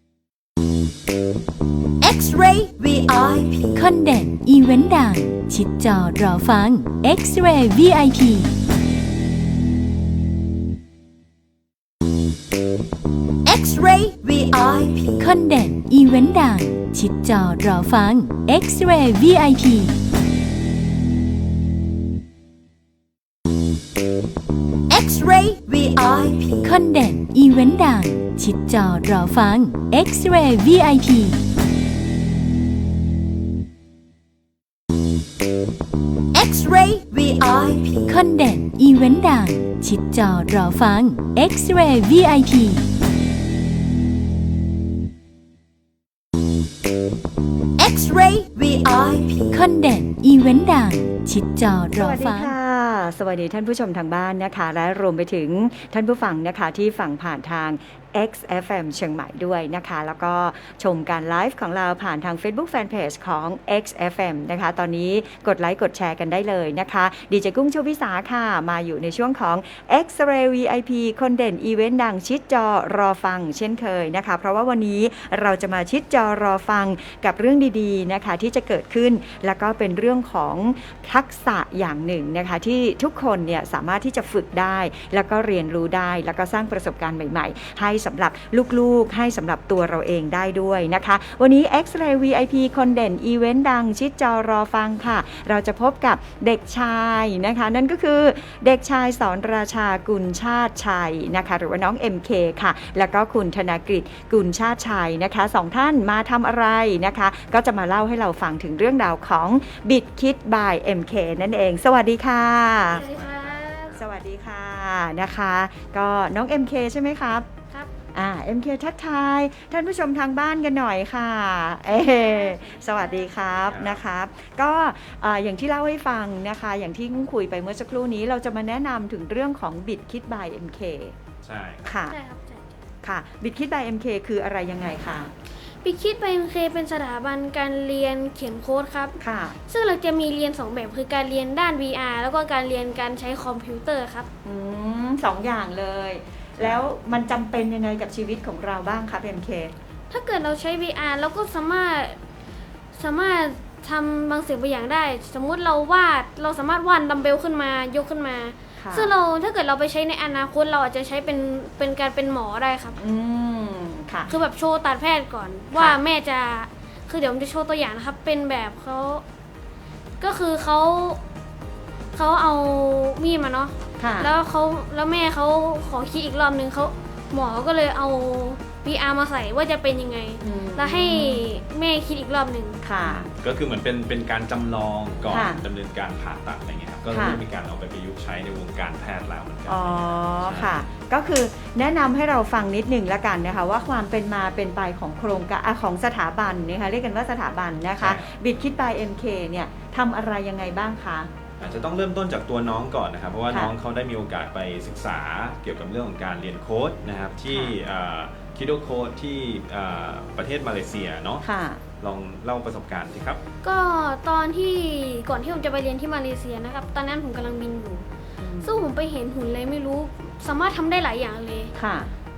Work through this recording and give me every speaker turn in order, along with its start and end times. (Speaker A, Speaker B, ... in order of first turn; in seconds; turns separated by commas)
Speaker A: 2.0-3.7, Speaker B: 3.5-8.5, Speaker A: 13.4-15.1, Speaker B: 13.5-19.9, Speaker A: 24.9-26.6, Speaker B: 25.1-25.8, Speaker B: 26.5-31.4, Speaker A: 36.3-38.0, Speaker B: 36.3-42.8, Speaker A: 47.8-49.5, Speaker B: 48.2-48.6, Speaker B: 49.3-52.5, Speaker C: 52.0-113.1, Speaker D: 112.8-114.0, Speaker E: 113.1-114.0, Speaker C: 114.0-117.5, Speaker C: 118.1-131.1, Speaker D: 121.9-123.8, Speaker E: 123.7-124.0, Speaker E: 131.4-132.0, Speaker C: 131.8-132.2, Speaker D: 132.1-132.8, Speaker C: 133.0-135.3, Speaker D: 135.8-144.3, Speaker C: 139.2-139.6, Speaker C: 144.4-149.7, Speaker E: 146.6-146.9, Speaker D: 150.1-152.2, Speaker D: 152.9-163.0, Speaker C: 158.8-159.1, Speaker C: 163.0-164.3, Speaker D: 164.3-169.2, Speaker D: 170.2-171.2, Speaker D: 172.1-182.8, Speaker C: 174.0-174.3, Speaker C: 180.4-181.5, Speaker C: 182.8-183.3, Speaker E: 183.0-190.8, Speaker C: 185.3-185.6, Speaker C: 187.1-187.4, Speaker C: 189.7-201.3, Speaker E: 198.0-198.3, Speaker E: 201.6-211.4, Speaker C: 211.4-211.8, Speaker E: 212.0-213.4, Speaker D: 213.6-218.0, Speaker C: 218.4-218.8, Speaker D: 218.6-221.7, Speaker C: 221.8-222.1